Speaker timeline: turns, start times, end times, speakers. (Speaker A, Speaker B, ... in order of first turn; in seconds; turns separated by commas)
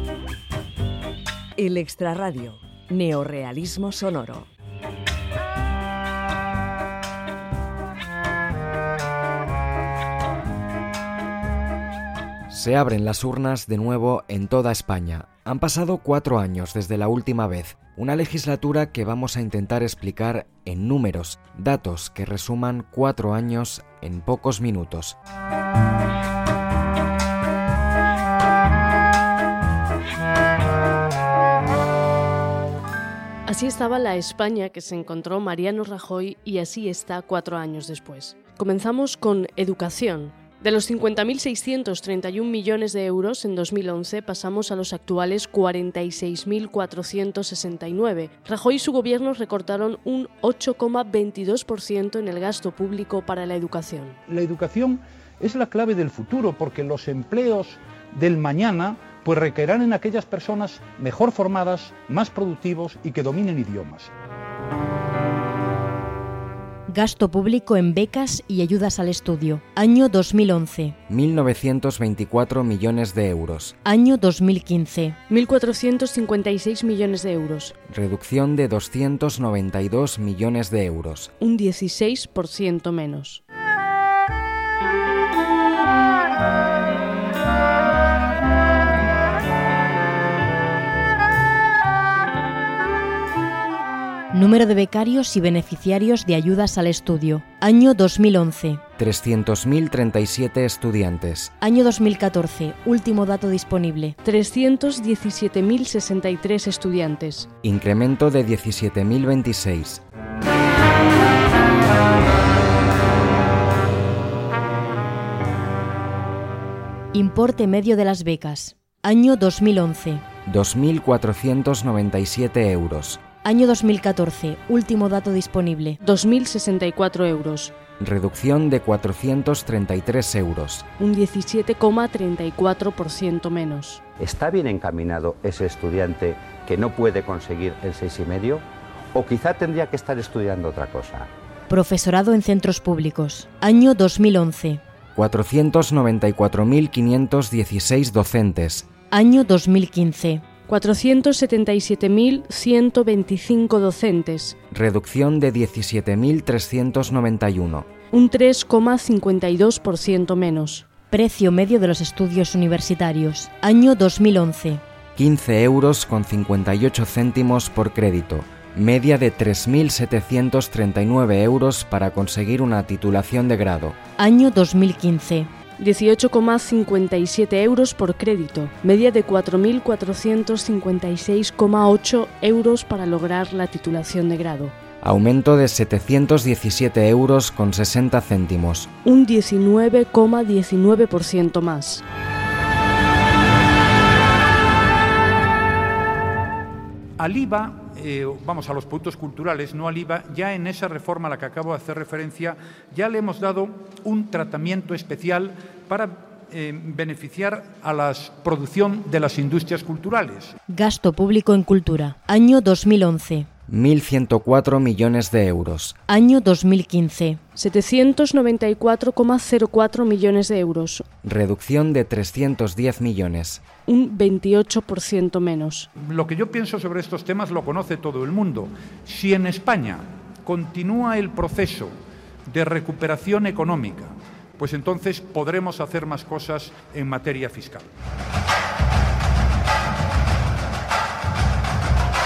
Speaker A: 1.6-4.5, Speaker B: 12.5-25.2, Speaker C: 33.5-54.2, Speaker D: 54.3-64.1, Speaker E: 66.9-71.0, Speaker B: 71.1-73.8, Speaker E: 73.8-75.2, Speaker C: 75.3-77.8, Speaker B: 77.9-81.3, Speaker C: 81.4-83.4, Speaker E: 94.3-98.8, Speaker B: 99.0-101.5, Speaker E: 101.6-104.2, Speaker C: 104.2-107.5, Speaker B: 107.6-110.0, Speaker E: 117.1-120.2, Speaker B: 120.5-123.2, Speaker E: 123.4-126.0, Speaker C: 126.0-127.7, Speaker B: 128.0-130.8, Speaker C: 131.0-134.0, Speaker F: 134.2-141.3, Speaker E: 141.7-144.8, Speaker B: 145.2-148.9, Speaker E: 149.1-150.4, Speaker C: 150.7-154.6, Speaker B: 154.7-157.9, Speaker C: 158.1-160.8, Speaker E: 161.1-164.8, Speaker B: 165.2-174.0, Speaker E: 174.2-175.5, Speaker C: 175.8-184.7, Speaker B: 185.0-188.9, Speaker C: 189.1-192.0, Speaker D: 197.2-210.6, Speaker E: 210.7-213.5, Speaker B: 213.7-216.0, Speaker E: 216.1-217.4, Speaker C: 217.6-221.1, Speaker B: 221.2-223.6, Speaker C: 223.9-225.9, Speaker D: 226.0-231.9, Speaker D: 232.5-237.9